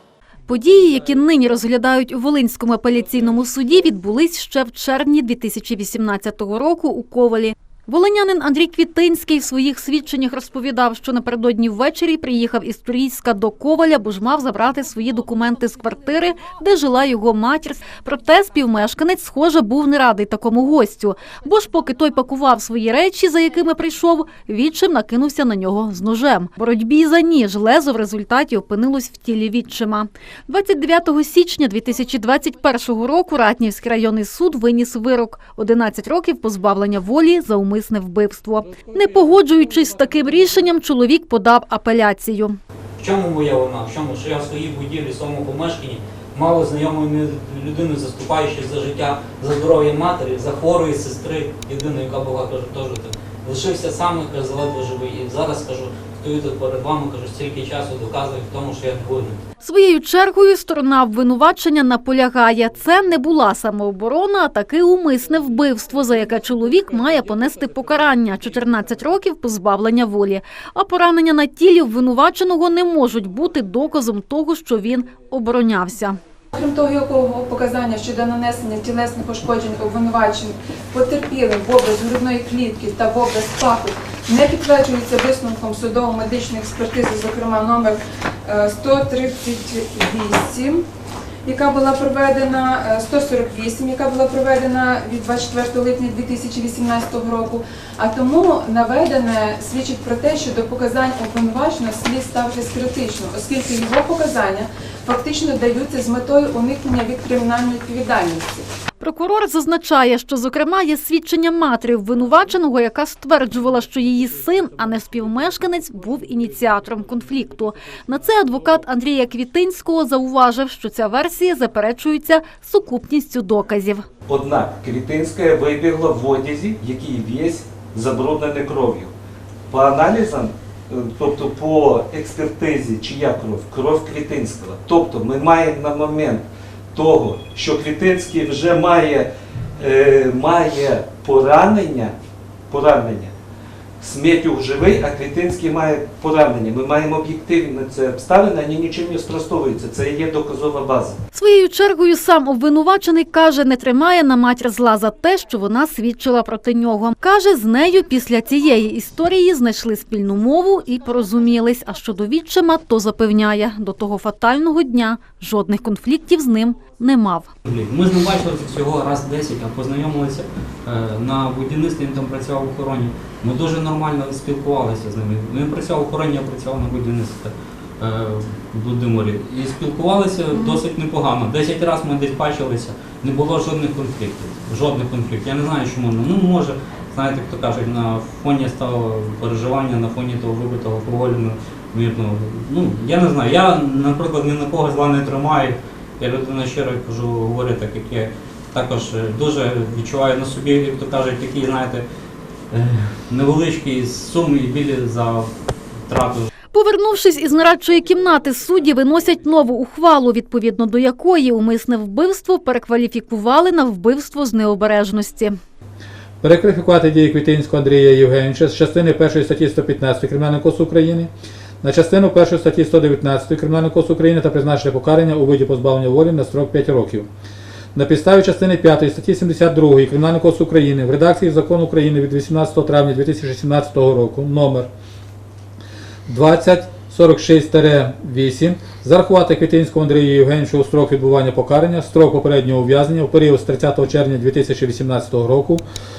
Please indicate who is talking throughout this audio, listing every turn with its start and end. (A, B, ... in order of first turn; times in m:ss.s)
0:00.5-0:42.6 A
0:43.0-0:59.4 B
0:59.6-1:16.2 A
1:16.5-1:30.8 C
1:31.4-1:48.7 C
1:49.0-2:04.0 A
2:04.2-2:09.1 D
2:09.7-2:22.1 D
2:22.7-2:23.3 D
2:24.0-2:31.2 D
2:31.3-2:47.5 A
2:47.6-3:22.1 B
3:22.7-3:25.5 B
3:26.1-3:26.5 B
3:26.7-3:35.6 A
3:36.4-3:41.3 E
3:41.8-3:47.3 E
3:47.9-3:54.9 E
3:56.3-4:05.8 E